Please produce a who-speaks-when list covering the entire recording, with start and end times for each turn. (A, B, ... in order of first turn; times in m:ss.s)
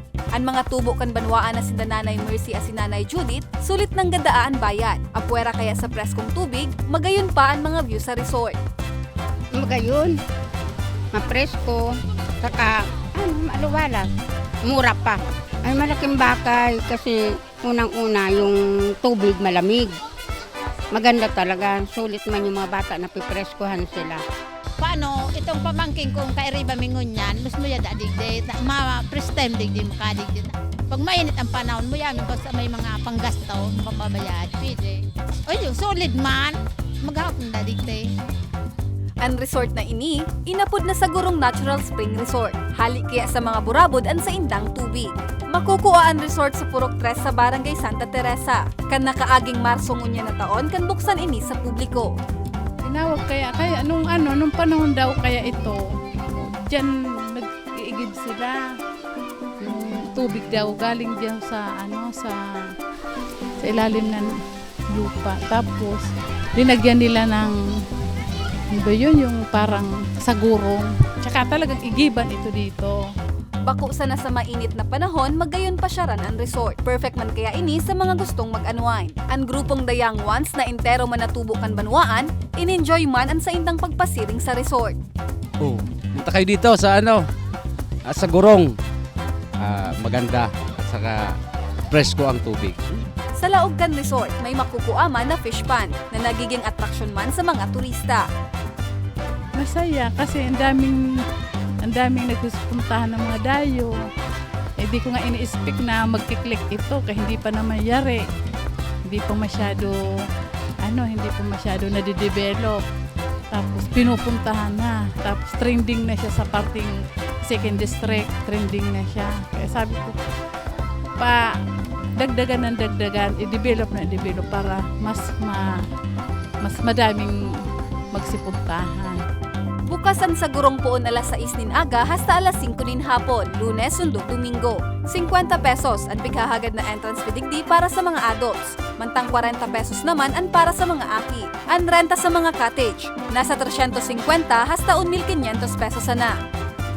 0:00.3-0:08.6 A
0:09.6-0:10.2 B
0:11.1-0:14.1 B
0:14.6-0:20.0 B
0:20.9-0:24.2 B
0:24.8-0:38.0 C
0:39.2-0:52.2 A
0:52.8-0:58.7 D
0:59.6-1:02.8 D
1:03.6-1:04.3 D
1:04.9-1:07.6 D
1:08.7-1:13.1 D
1:13.7-1:25.0 A
1:25.6-1:27.3 E
1:28.0-1:28.8 E
1:29.6-1:31.4 E
1:31.9-1:33.0 E
1:33.4-1:38.3 A
1:39.6-1:41.2 D
1:41.8-1:44.0 D
1:44.8-1:48.3 D
1:49.0-1:50.3 D
1:50.8-1:52.8 D
1:53.5-2:00.2 D
2:01.2-2:01.6 D
2:02.2-2:05.9 D
2:06.6-2:07.6 D
2:08.1-2:09.2 D
2:09.9-2:26.4 A